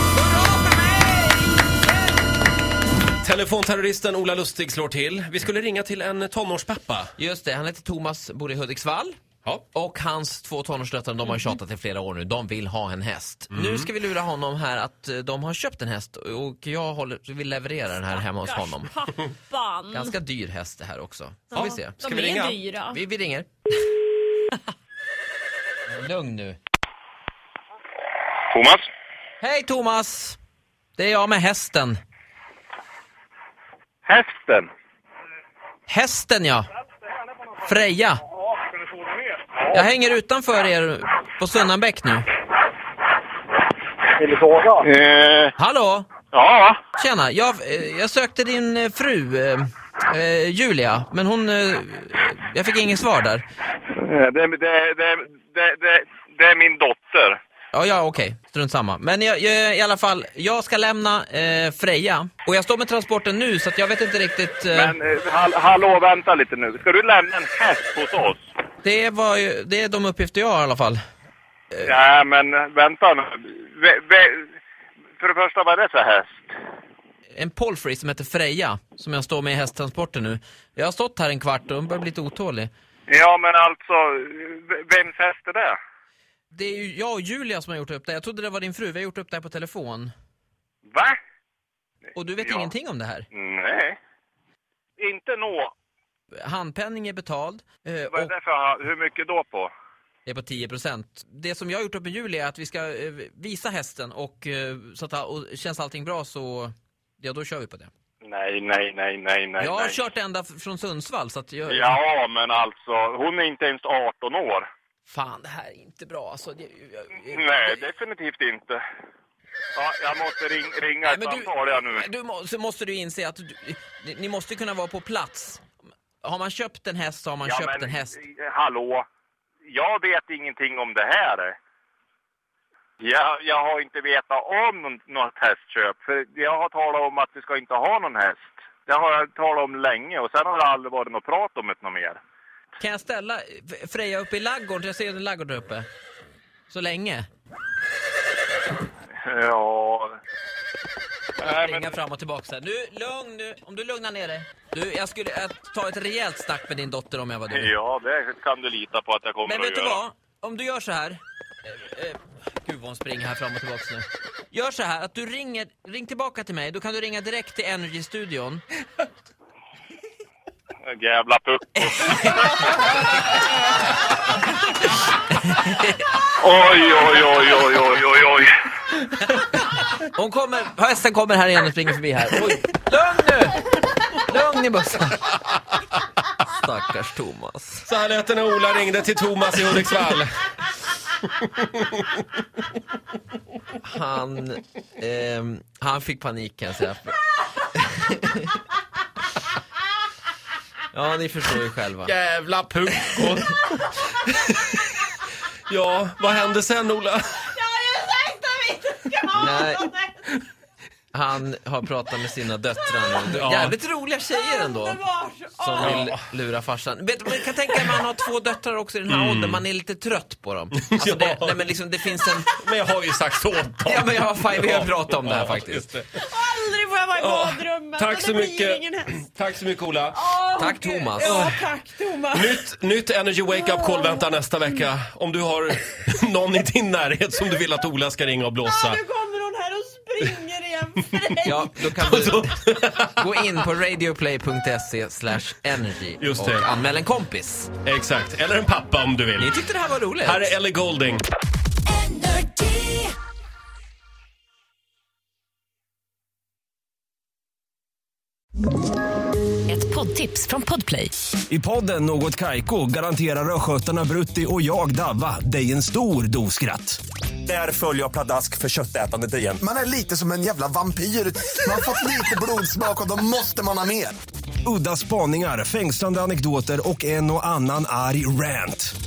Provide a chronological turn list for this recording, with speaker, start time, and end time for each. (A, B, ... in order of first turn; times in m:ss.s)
0:00.1-0:01.9 A
0:03.2-0:07.1 B
0:07.2-0:09.2 A
0:09.7-0:18.9 A
0:13.5-0:13.9 B
0:18.1-0:20.1 C
0:19.9-0:22.0 A
0:21.5-0:22.6 B
0:21.5-0:23.0 C
0:22.9-0:23.7 A
0:25.9-0:26.6 A
0:28.5-0:28.8 D
0:29.4-0:30.4 A
0:31.0-0:32.0 A
0:34.0-0:34.7 D
0:35.9-0:36.7 A
0:37.6-0:38.2 A
0:39.7-0:42.3 A
0:44.2-0:45.5 D
0:45.6-0:46.1 A
0:46.3-0:46.8 D
0:47.0-0:53.4 A
0:54.0-0:57.4 D
0:57.7-1:05.0 A
1:04.7-1:08.4 D
1:08.8-1:11.0 A
1:11.8-1:14.5 D
1:15.2-1:16.5 D
1:17.3-1:22.7 A
1:23.1-1:25.8 D
1:26.5-1:30.1 A
1:30.9-1:31.2 D
1:32.1-1:33.2 A
1:33.3-1:34.0 D
1:35.0-1:35.7 D
1:36.4-1:38.3 A
1:38.1-1:39.7 D
1:40.2-1:47.9 A
1:48.2-1:50.0 D
1:49.6-1:52.0 A
1:51.7-1:54.7 D
1:55.1-1:57.8 A
1:57.3-1:58.8 D
1:59.7-2:02.0 D
2:01.0-2:05.6 A
2:06.2-2:08.1 A
2:07.4-2:09.0 D
2:09.6-2:11.6 D
2:13.0-2:22.2 D
2:22.8-2:25.9 A
2:26.7-2:27.3 A
2:29.2-2:30.2 D
2:31.4-2:31.9 D
2:31.4-2:37.7 A
2:37.5-2:40.0 D
2:39.4-2:48.6 A
2:50.8-2:52.0 D
2:51.8-2:52.7 A
2:55.4-2:56.0 A
2:56.4-2:58.5 D
3:00.0-3:05.4 A
3:06.4-3:07.8 A
3:07.8-3:10.4 B
3:11.4-3:11.9 B
3:13.8-3:17.2 A
3:17.7-3:18.5 A
3:20.9-3:22.1 A
3:22.0-3:24.8 B
3:25.7-3:27.4 B
3:27.4-3:30.1 C
3:29.3-3:29.9 A
3:31.1-3:35.0 A
3:33.3-3:33.8 B
3:34.5-3:36.0 C
3:35.6-3:42.5 A
3:35.8-3:36.2 B
3:39.1-3:39.6 B
3:40.8-3:41.7 B
3:42.5-3:46.1 B
3:43.8-3:45.9 A
3:46.2-3:49.2 C
3:47.2-3:50.2 B
3:50.1-3:52.6 C
3:50.6-3:51.3 A
3:51.2-3:51.6 B
3:52.3-3:59.0 B
3:53.5-3:54.2 C
3:58.7-4:01.8 C
4:01.4-4:07.7 A
4:01.8-4:03.1 B
4:06.2-4:06.6 B
4:07.8-4:09.5 B
4:09.4-4:10.5 A
4:10.2-4:11.2 B
4:12.0-4:13.0 E
4:19.7-4:21.1 E
4:21.5-4:29.6 F
4:29.6-4:34.2 G
4:34.6-4:38.9 F